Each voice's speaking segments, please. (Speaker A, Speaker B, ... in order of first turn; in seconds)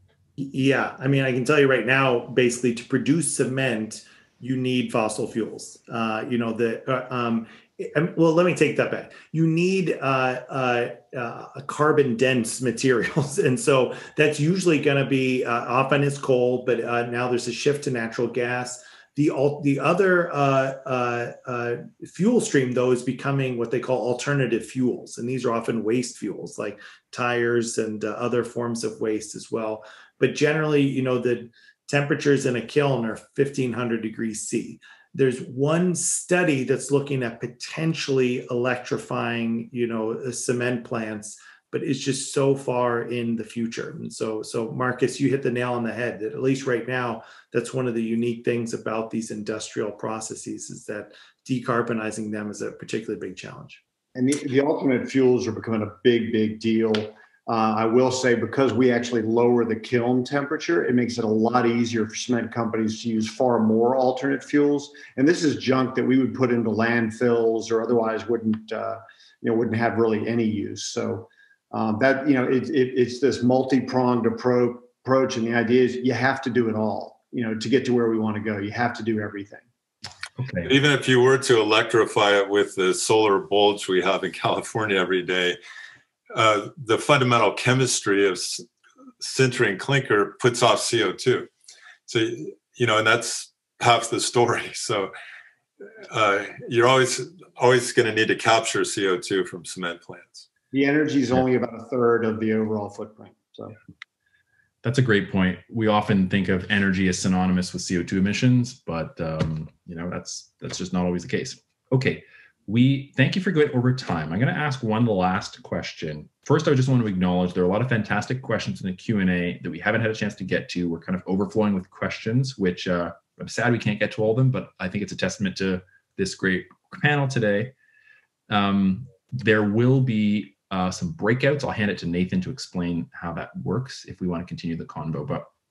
Speaker A: 0.4-53.8
Speaker B: 54.1-79.6, 100.7-103.8
Speaker C: 80.4-80.7, 104.8-127.7, 128.5-135.5
Speaker D: 80.6-85.6, 86.3-88.6, 89.2-91.5, 92.1-95.1, 96.1-100.4